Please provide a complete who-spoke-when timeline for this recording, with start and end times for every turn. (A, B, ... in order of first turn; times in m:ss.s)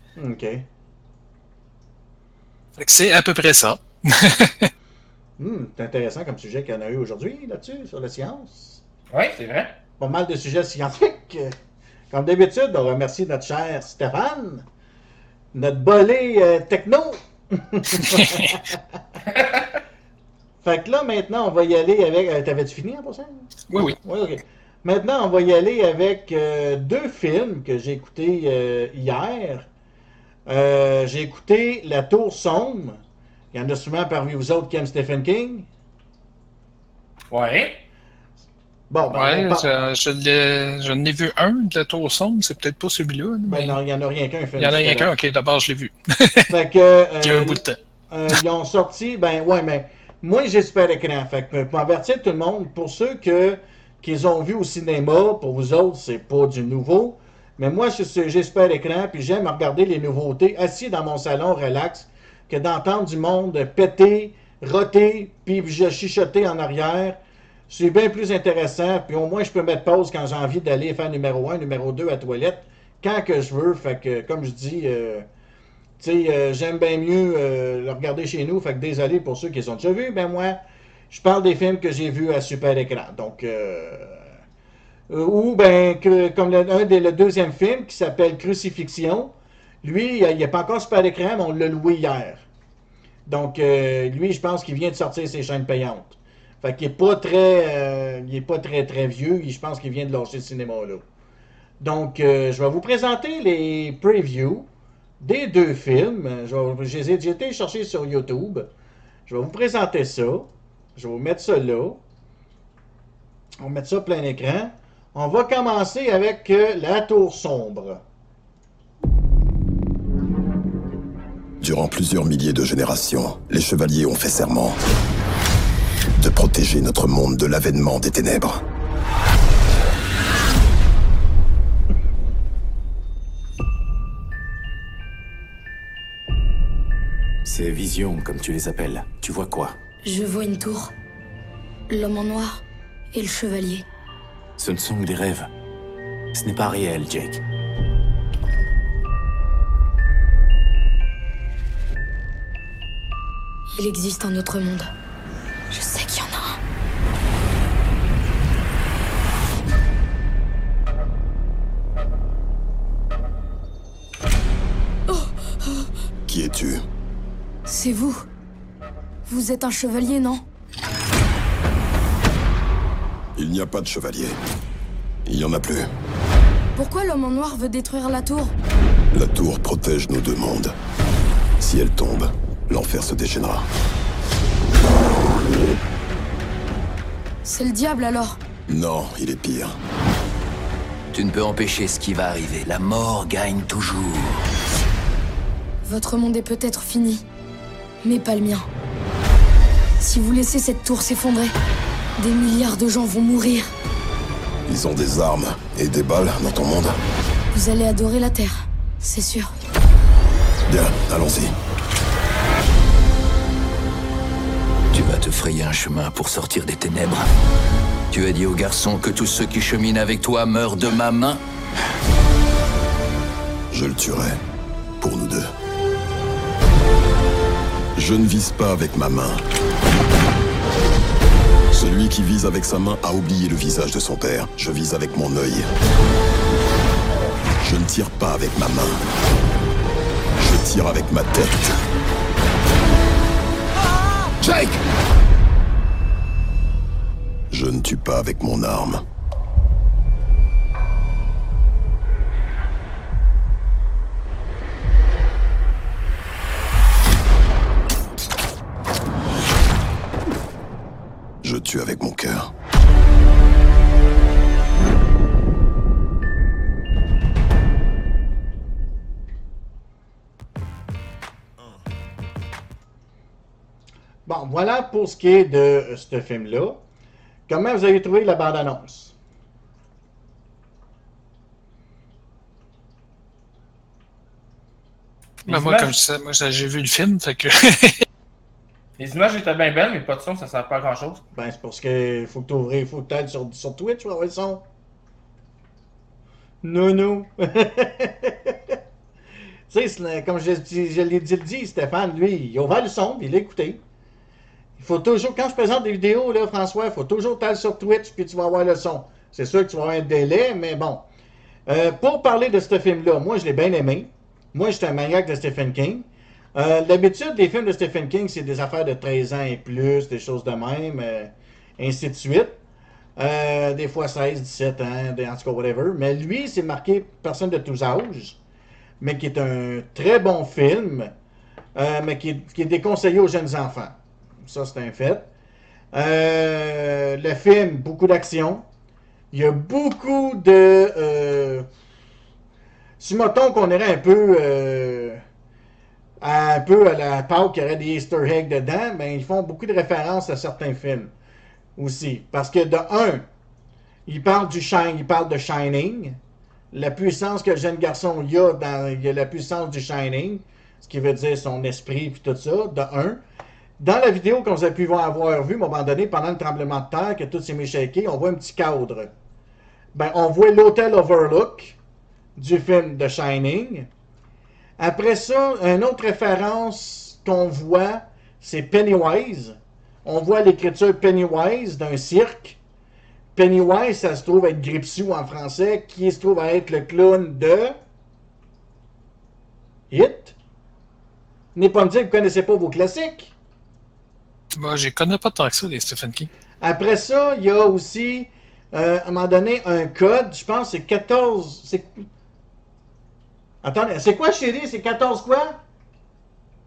0:00.2-0:00.6 A
0:02.8-0:04.7 B
0:05.4-0:08.8 A
0:09.1-0:09.8 C
0:10.0-0:11.6 A
0:12.1-0:14.6 A
0:15.5-0:18.6 A
0:18.0-0:18.4 B
0:19.3-0:19.8 C
0:20.6-0:23.5 A
0:23.7-0:24.0 B
0:24.0-0:29.7 A
0:30.5-0:33.0 A
0:33.5-0:35.7 A
0:37.3-0:37.8 C
0:38.9-0:39.7 A
0:39.1-0:43.8 B
0:43.5-0:45.1 A
0:44.6-0:46.5 B
0:46.5-1:07.2 A
0:47.2-0:47.8 B
1:07.7-1:15.3 A
1:16.0-1:20.6 A
1:21.1-1:24.3 A
1:25.1-1:29.3 A
1:29.8-1:32.4 A
1:33.3-1:41.0 A
1:41.8-1:44.7 A
1:45.2-1:48.7 A
1:49.3-1:52.0 A
1:53.6-1:58.0 A
2:01.6-2:04.8 D
2:06.2-2:08.6 D
2:17.4-2:19.8 E
2:20.0-2:20.9 F
2:21.9-2:22.6 F
2:23.1-2:23.8 F
2:24.6-2:25.5 E
2:26.4-2:27.4 E
2:33.8-2:34.9 F
2:35.7-2:36.6 F
2:45.1-2:45.9 F
2:46.3-2:46.8 D
2:47.7-2:48.2 F
2:49.3-2:50.4 F
2:53.4-2:54.4 D
2:55.3-2:55.9 D
2:56.8-2:58.5 F
2:59.1-3:00.8 D
3:01.6-3:03.7 D
3:07.4-3:08.4 F
3:08.7-3:09.8 D
3:11.1-3:14.4 G
3:15.9-3:17.2 F
3:18.0-3:18.7 F
3:20.0-3:21.5 F
3:22.2-3:23.7 F
3:24.7-3:27.0 D
3:27.5-3:29.5 F
3:30.7-3:31.5 D
3:34.9-3:37.3 G
3:38.1-3:41.4 G
3:43.7-3:44.4 D
3:45.0-3:45.5 D
3:48.0-3:49.4 D
3:51.7-3:55.7 D
3:57.6-3:59.0 D
4:00.4-4:01.8 D
4:04.4-4:04.8 D
4:07.5-4:09.0 D
4:21.4-4:22.5 D
4:34.3-4:36.8 A
4:37.5-4:39.2 A
4:45.5-4:48.0 B
4:45.5-4:45.9 C
4:49.0-4:51.2 C
4:51.3-4:54.6 A
4:56.6-4:58.8 A
4:59.7-5:03.8 A
5:04.8-5:11.1 A
5:11.7-5:22.6 A
5:23.2-5:28.4 A
5:29.0-5:31.1 A
5:31.8-5:35.3 A
5:35.9-5:38.6 A
5:39.3-5:41.7 A
5:43.0-5:45.2 A
5:46.2-5:51.1 A
5:51.8-5:53.3 A
5:54.1-5:56.2 A
5:56.7-6:03.2 A
6:03.8-6:09.1 A
6:09.9-6:11.8 A
6:12.4-6:13.9 A
6:14.8-6:22.6 A
6:23.4-6:27.8 A
6:29.9-6:30.4 A
6:31.6-6:33.3 A
6:34.6-6:36.3 B
6:36.6-6:42.0 A
6:43.6-6:45.6 A